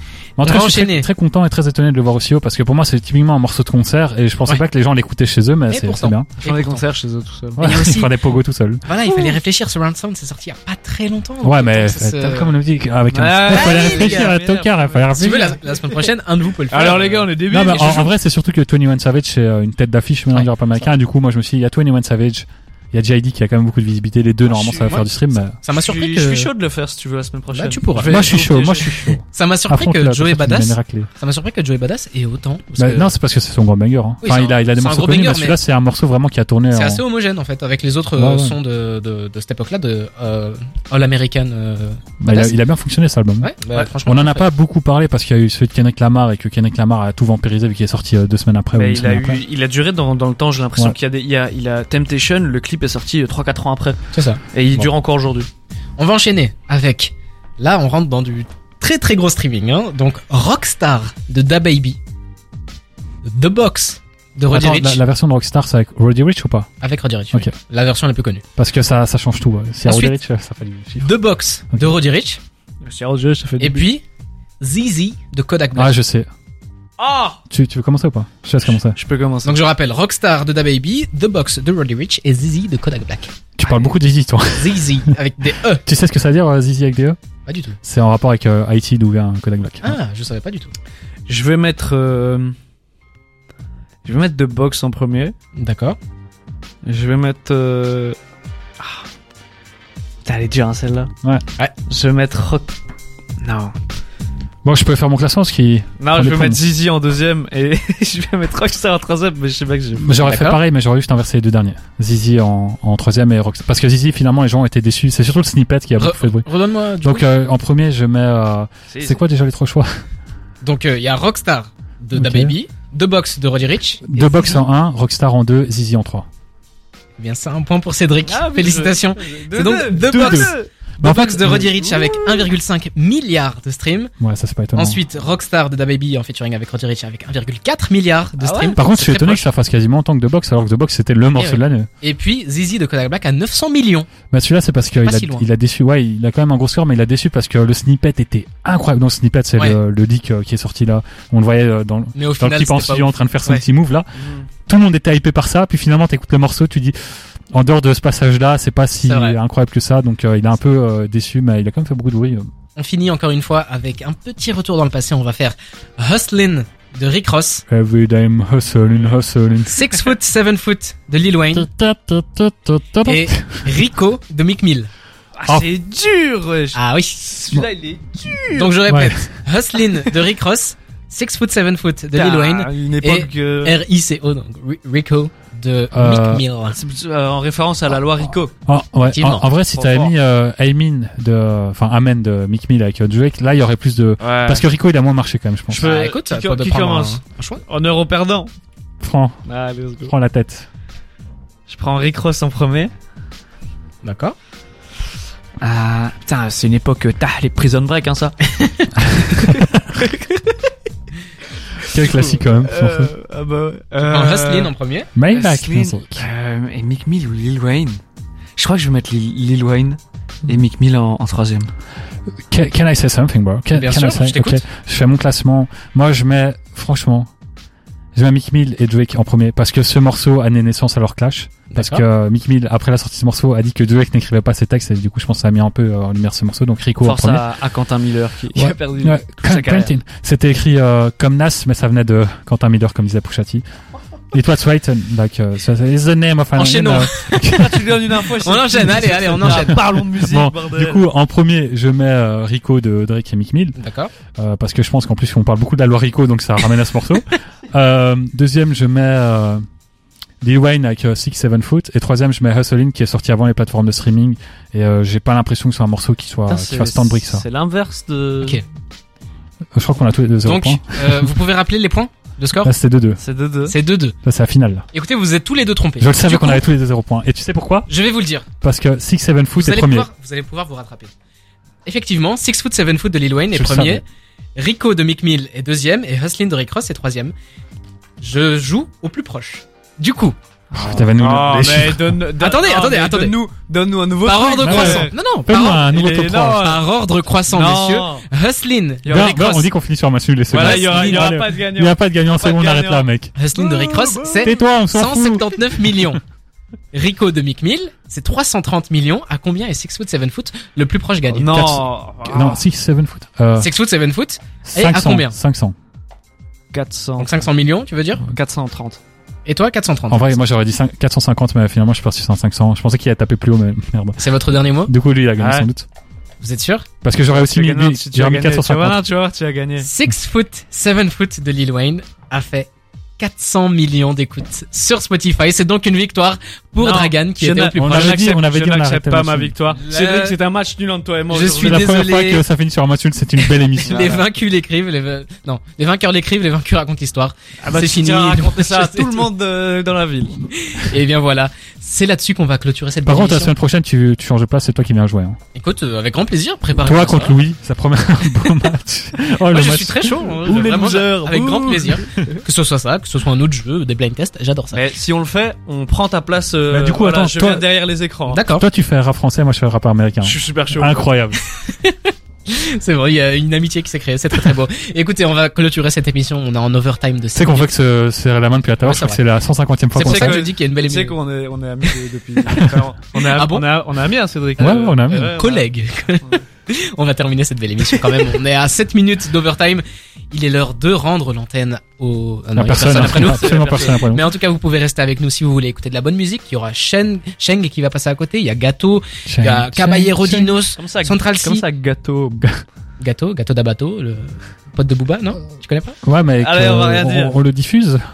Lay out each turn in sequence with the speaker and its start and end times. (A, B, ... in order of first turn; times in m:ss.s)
0:00.4-0:06.3 A
0:00.4-0:01.1 B
0:05.7-0:06.8 B
0:06.4-0:07.6 C
0:07.6-0:08.8 A
0:07.6-0:08.2 B
0:08.8-0:12.5 B
0:09.0-0:09.4 C
0:11.4-0:15.6 A
0:13.1-0:16.0 C
0:13.5-0:14.3 B
0:15.2-0:17.3 B
0:16.7-0:18.1 C
0:17.4-0:25.6 A
0:24.6-0:24.9 C
0:24.8-0:25.1 B
0:25.6-0:26.5 B
0:25.7-0:29.1 C
0:27.5-0:28.4 B
0:28.0-0:31.1 A
0:29.3-0:33.1 B
0:32.8-0:37.0 A
0:34.2-0:35.6 B
0:36.7-0:42.6 B
0:38.1-0:38.6 A
0:42.2-0:43.5 A
0:43.4-0:44.5 B
0:44.0-0:49.4 A
0:48.7-0:54.0 C
0:54.1-0:54.9 B
0:54.5-0:55.5 C
0:56.0-1:02.0 B
1:03.2-1:05.0 B
1:04.5-1:06.7 A
1:06.8-1:08.4 B
1:08.6-1:11.2 A
1:09.8-1:10.2 B
1:11.0-1:12.4 B
1:12.8-1:13.8 C
1:13.6-1:14.0 B
1:14.6-1:16.0 B
1:15.7-1:16.3 A
1:17.0-1:17.4 C
1:17.5-1:19.0 A
1:18.9-1:19.6 C
1:19.4-1:23.9 B
1:23.6-1:25.1 A
1:24.5-1:25.8 B
1:25.8-1:27.2 A
1:27.4-1:27.8 B
1:27.8-1:30.0 A
1:29.8-1:30.7 B
1:31.3-1:32.6 C
1:34.0-1:35.3 C
1:35.6-1:36.0 B
1:36.8-1:38.2 C
1:38.8-1:39.0 C
1:40.2-1:41.1 C
1:41.9-1:42.7 C
1:43.4-1:43.7 C
1:44.6-1:46.6 A
1:46.0-1:50.1 C
1:49.9-1:56.4 A
1:50.2-1:50.6 B
1:56.0-1:57.2 B
1:57.0-1:59.9 A
1:58.9-1:59.2 C
2:00.6-2:04.6 B
2:02.1-2:02.6 A
2:04.0-2:06.2 A
2:07.2-2:14.1 B
2:08.2-2:10.7 C
2:10.0-2:11.7 A
2:11.6-2:12.5 C
2:14.2-2:15.0 A
2:14.7-2:19.5 B
2:18.4-2:18.8 C
2:18.8-2:21.9 A
2:21.4-2:24.1 B
2:24.3-2:34.1 A
2:25.0-2:25.5 B
2:32.1-2:33.6 B
2:34.2-2:34.4 C
2:34.7-2:42.5 A
2:39.0-2:39.4 B
2:42.8-2:47.6 B
2:47.7-2:49.9 A
2:49.6-2:51.7 B
2:51.5-2:53.8 A
2:53.0-2:54.9 B
2:55.4-2:56.8 C
2:56.7-2:57.6 B
2:57.5-2:58.8 C
2:58.5-3:06.8 B
2:58.9-2:59.3 A
3:02.1-3:03.8 C
3:05.9-3:06.4 A
3:06.7-3:08.5 C
3:08.6-3:15.9 A
3:09.1-3:09.5 B
3:09.7-3:10.1 C
3:14.2-3:14.7 C
3:15.7-3:18.5 C
3:15.8-3:17.6 B
3:19.0-3:19.4 A
3:19.4-3:20.1 C
3:20.0-3:20.7 A
3:21.7-3:22.9 C
3:24.0-3:24.4 B
3:25.6-3:28.4 C
3:29.2-3:29.5 C
3:31.9-3:33.1 A
3:32.0-3:34.7 C
3:34.0-3:35.1 B
3:35.1-3:36.3 A
3:35.3-3:38.0 C
3:38.6-3:41.7 C
3:42.5-3:47.3 A
3:43.7-3:44.6 B
3:48.1-3:57.4 A
3:51.7-3:52.0 B
3:57.0-3:59.9 C
3:58.5-4:03.6 A
4:04.3-4:07.9 A
4:06.6-4:07.4 B
4:07.4-4:11.0 C
4:08.4-4:09.8 B
4:08.8-4:13.8 A
4:13.8-4:14.1 B
4:14.4-4:19.6 A
4:20.4-4:27.4 A
4:26.5-4:28.6 C
4:29.7-4:31.3 A
4:30.4-4:32.7 B
4:32.6-4:33.2 A
4:33.2-4:33.7 C
4:33.6-4:34.2 B
4:34.2-4:34.8 A
4:34.9-4:36.6 B
4:36.0-4:37.9 A
4:37.9-4:38.4 B
4:38.6-4:40.1 A
4:39.5-4:41.1 B
4:41.8-4:44.0 B
4:43.5-4:44.0 A
4:44.6-4:47.3 B
4:48.2-4:50.4 B
4:50.7-4:55.1 C
4:50.7-4:52.2 A
4:52.4-4:53.4 B
4:54.2-4:55.9 B
4:54.6-4:56.7 A
4:55.9-4:56.8 C
4:56.6-4:59.7 B
4:57.5-4:58.2 C
4:59.0-4:59.4 C
4:59.1-5:03.3 A
5:00.5-5:04.5 C
5:00.5-5:01.3 B
5:03.4-5:06.2 B
5:04.4-5:05.5 A
5:06.9-5:11.6 B
5:11.3-5:12.6 C
5:11.4-5:13.7 A
5:13.6-5:15.3 B
5:14.7-5:15.7 A
5:16.7-5:17.3 C
5:17.2-5:18.2 B
5:18.3-5:19.0 C
5:19.4-5:20.4 B
5:20.1-5:24.2 A
5:24.2-5:24.9 B
5:24.8-5:25.8 A
5:25.4-5:25.7 C
5:26.4-5:26.8 B
5:27.0-5:29.0 A
5:27.3-5:29.9 C
5:29.8-5:38.2 B
5:36.8-5:41.8 C
5:37.7-5:39.5 A
5:39.8-5:40.4 B
5:41.3-5:42.4 B
5:41.5-5:44.2 A
5:43.4-5:49.3 B
5:47.6-5:50.4 C
5:50.5-5:53.5 B
5:53.0-5:55.4 A
5:55.5-5:57.4 B
5:56.7-6:00.1 A
5:59.5-6:04.8 B
6:00.3-6:02.4 C
6:04.7-6:08.4 C
6:06.7-6:07.7 A
6:08.3-6:08.7 B
6:08.4-6:11.4 A
6:10.2-6:11.0 C
6:11.5-6:17.7 B
6:17.3-6:20.4 A
6:18.8-6:19.2 B
6:19.9-6:21.2 B
6:20.0-6:25.6 C
6:23.2-6:23.6 B
6:24.6-6:25.4 A
6:25.3-6:41.6 B
6:32.5-6:34.3 A
6:32.7-6:34.1 C
6:39.2-6:40.6 A
6:40.7-6:42.5 C
6:43.0-6:46.0 B
6:46.0-6:48.0 A
6:46.4-6:47.4 C